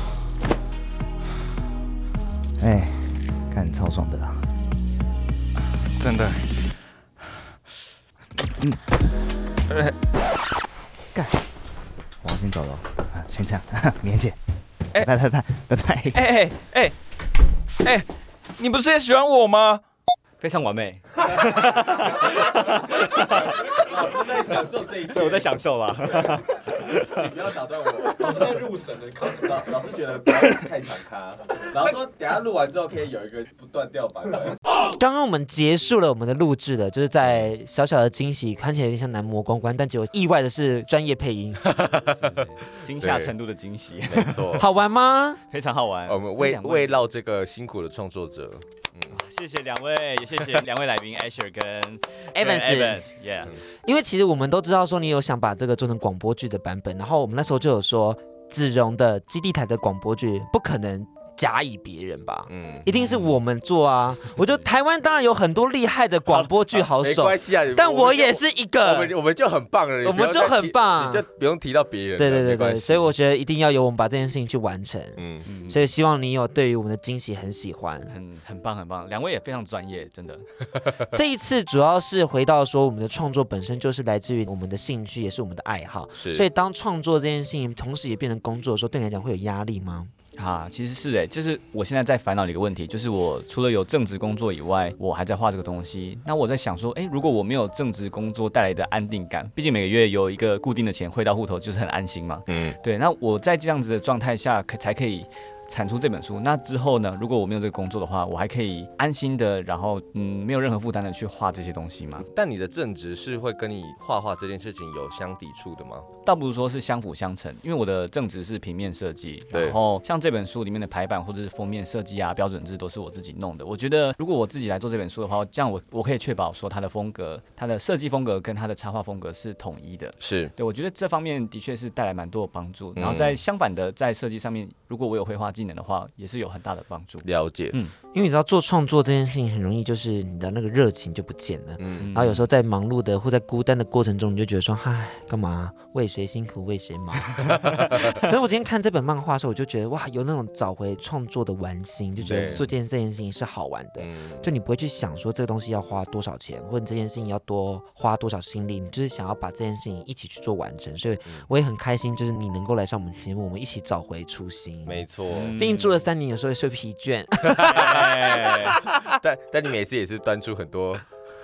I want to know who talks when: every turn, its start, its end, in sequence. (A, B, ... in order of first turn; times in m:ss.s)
0:02.6-0:04.5 A
0:06.0-0:06.5 B
0:12.2-0:14.4 A
0:15.0-0:16.2 A
0:16.1-0:17.0 B
0:18.6-0:19.8 B
0:20.4-0:24.2 C
0:22.0-0:25.5 D
0:25.1-0:27.3 C
0:26.0-0:34.6 D
0:28.2-0:28.6 C
0:34.7-0:41.7 E
0:37.2-0:37.5 D
0:41.7-0:42.3 D
0:42.2-0:44.6 C
0:43.0-0:43.3 D
0:44.1-0:44.7 D
0:44.6-0:45.4 E
0:45.5-0:47.0 C
0:46.1-0:49.2 D
0:49.1-0:53.6 C
0:52.4-0:53.1 E
0:53.8-1:09.2 E
1:02.5-1:02.9 D
1:06.3-1:13.2 D
1:10.0-1:11.2 E
1:12.2-1:18.1 E
1:15.2-1:15.5 D
1:15.5-1:15.9 C
1:18.1-1:20.5 C
1:21.1-1:30.1 E
1:26.2-1:26.5 D
1:30.4-1:52.3 C
1:42.5-1:42.8 D
1:52.3-1:56.1 D
1:56.2-2:18.0 C
1:59.5-1:59.8 D
2:10.2-2:10.5 D
2:13.0-2:13.4 D
2:17.2-2:17.8 D
2:18.1-2:49.1 E
2:21.8-2:22.1 D
2:22.0-2:22.5 C
2:27.5-2:28.2 D
2:32.2-2:32.6 C
2:32.2-2:32.7 D
2:34.0-2:34.5 D
2:44.9-2:45.6 D
2:45.3-2:46.0 C
2:47.5-2:48.0 D
2:47.7-2:48.7 C
2:49.0-2:51.0 D